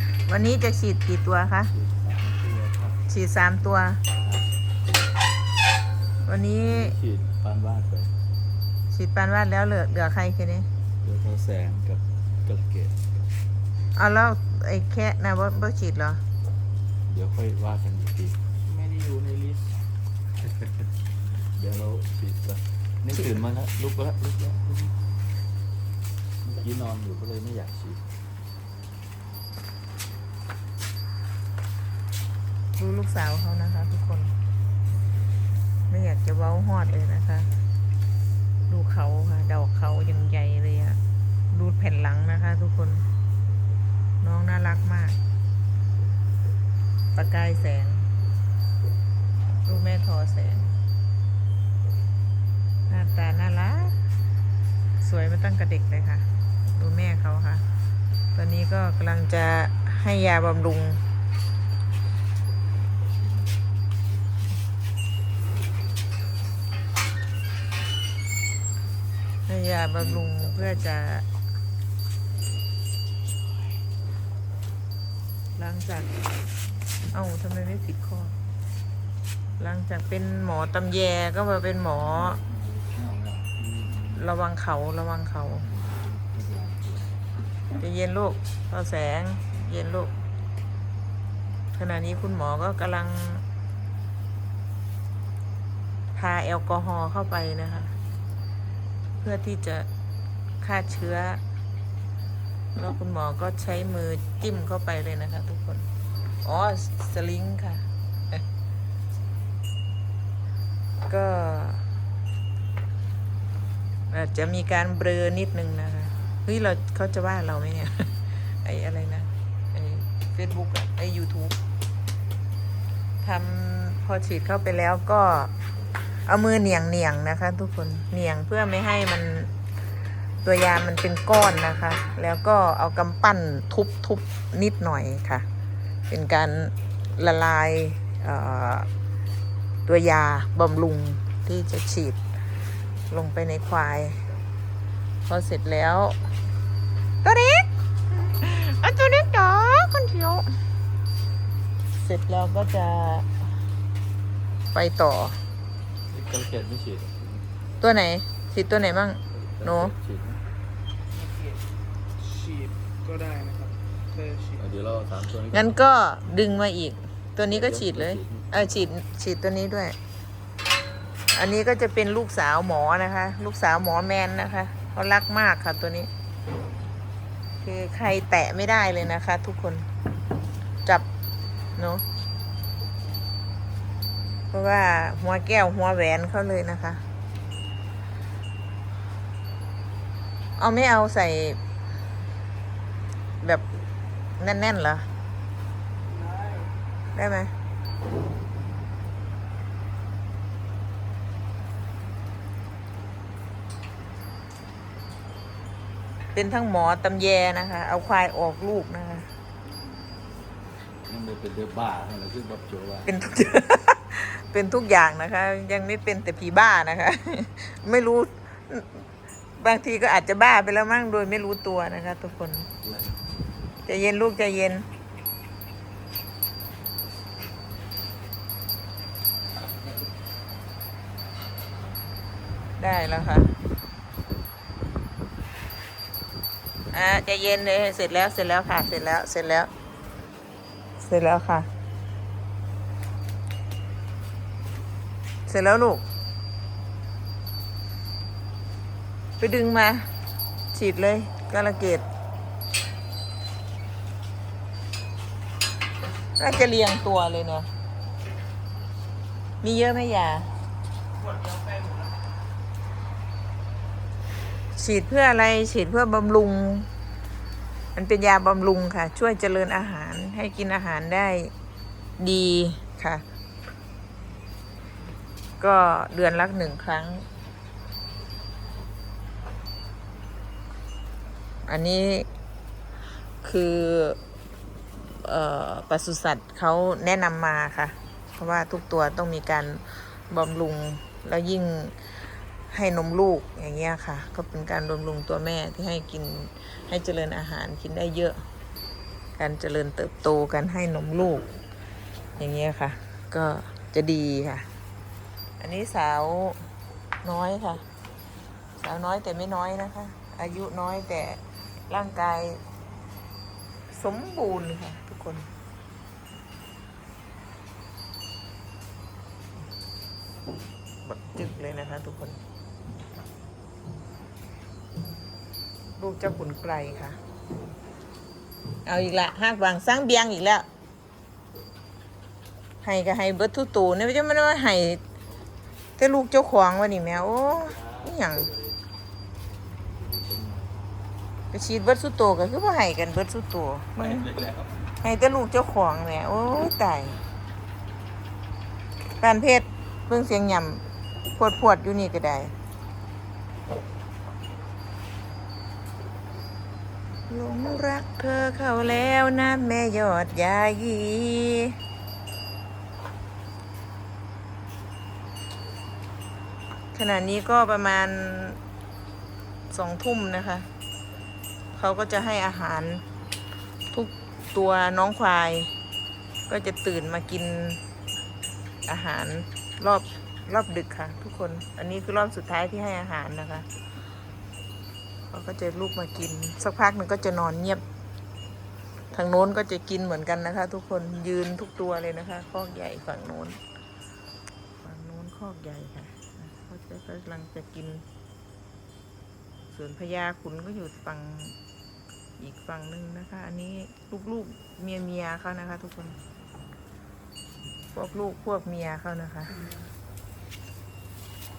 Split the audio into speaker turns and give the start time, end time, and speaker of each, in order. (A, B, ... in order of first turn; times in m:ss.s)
0:00.2-0:01.7 A
0:01.7-0:03.0 B
0:03.1-0:04.0 A
0:04.2-0:04.5 B
0:06.2-0:06.9 A
0:06.6-0:08.1 B
0:08.9-0:10.7 A
0:11.0-0:13.0 B
0:13.9-0:16.2 A
0:17.1-0:19.6 B
0:21.5-0:24.9 B
0:26.4-0:28.0 B
0:32.8-0:34.3 A
0:35.9-0:37.5 A
0:38.7-0:41.0 A
0:41.5-0:43.0 A
0:44.2-0:45.2 A
0:47.1-0:48.0 A
0:49.6-0:50.7 A
0:52.9-0:54.0 A
0:55.0-0:57.6 A
0:58.3-1:01.0 A
1:09.5-1:11.2 A
1:15.6-1:16.1 A
1:17.1-1:18.3 A
1:19.6-1:22.4 A
1:22.0-1:24.2 B
1:24.1-1:25.7 A
1:25.6-1:27.2 B
1:27.8-1:30.1 A
1:31.7-1:33.4 A
1:36.1-1:37.9 A
1:39.2-1:39.9 A
1:40.6-1:41.4 A
1:42.7-1:45.9 A
1:46.4-1:48.4 A
1:51.1-1:51.8 A
1:54.1-2:01.6 A
2:03.2-2:05.5 A
2:06.2-2:09.5 A
2:10.4-2:15.4 A
2:16.1-2:18.9 A
2:19.8-2:22.2 A
2:23.1-2:24.2 A
2:25.2-2:26.2 A
2:27.2-2:30.5 A
2:32.0-2:33.4 A
2:34.7-2:35.4 A
2:36.1-2:37.4 B
2:37.8-2:39.9 A
2:39.5-2:40.4 B
2:42.2-2:44.6 C
2:44.5-2:45.7 B
2:45.5-2:50.0 A
2:47.5-2:48.5 B
2:51.3-2:56.1 A
2:57.6-2:59.9 A
3:01.8-3:02.0 A
3:04.5-3:07.0 A
3:10.6-3:11.6 A
3:14.4-3:15.1 A
3:17.1-3:17.5 A
3:26.3-3:29.3 A
3:31.0-3:33.1 B
3:33.0-3:39.0 A
3:39.6-3:42.7 A
3:43.8-3:44.8 A
3:52.8-3:53.5 A
3:56.9-3:59.7 A
4:01.0-4:01.7 A
4:05.4-4:06.0 A
4:09.4-4:10.1 A
4:10.7-4:12.0 A
4:16.4-4:17.7 A
4:19.6-4:20.5 A
4:21.4-4:22.0 C
4:24.7-4:26.9 A
4:27.9-4:31.5 A
4:32.2-4:33.2 A
4:35.6-4:37.2 A
4:41.6-4:42.3 A
4:43.4-4:44.2 A
4:45.0-4:52.0 A
4:52.7-4:58.4 A
4:59.4-5:01.5 A
5:02.4-5:04.7 A
5:05.6-5:06.6 A
5:07.2-5:07.8 A
5:08.8-5:12.6 A
5:13.9-5:15.5 A
5:21.0-5:22.4 A
5:26.0-5:27.2 A
5:28.8-5:30.7 A
5:32.8-5:35.0 A
5:36.0-5:38.5 A
5:40.0-5:40.6 B
5:41.5-5:44.3 A
5:44.3-5:44.6 B
5:45.0-5:47.2 A
5:49.2-5:50.8 A
5:51.3-5:52.5 A
5:57.3-6:01.8 A
6:06.9-6:08.6 A
6:09.7-6:10.7 A
6:11.7-6:13.0 A
6:13.9-6:15.7 A
6:16.5-6:17.8 A
6:18.8-6:23.7 A
6:25.3-6:27.8 A
6:29.1-6:33.6 A
6:34.8-6:38.0 A
6:39.7-6:41.6 A
6:42.4-6:46.2 A
6:47.9-6:49.6 A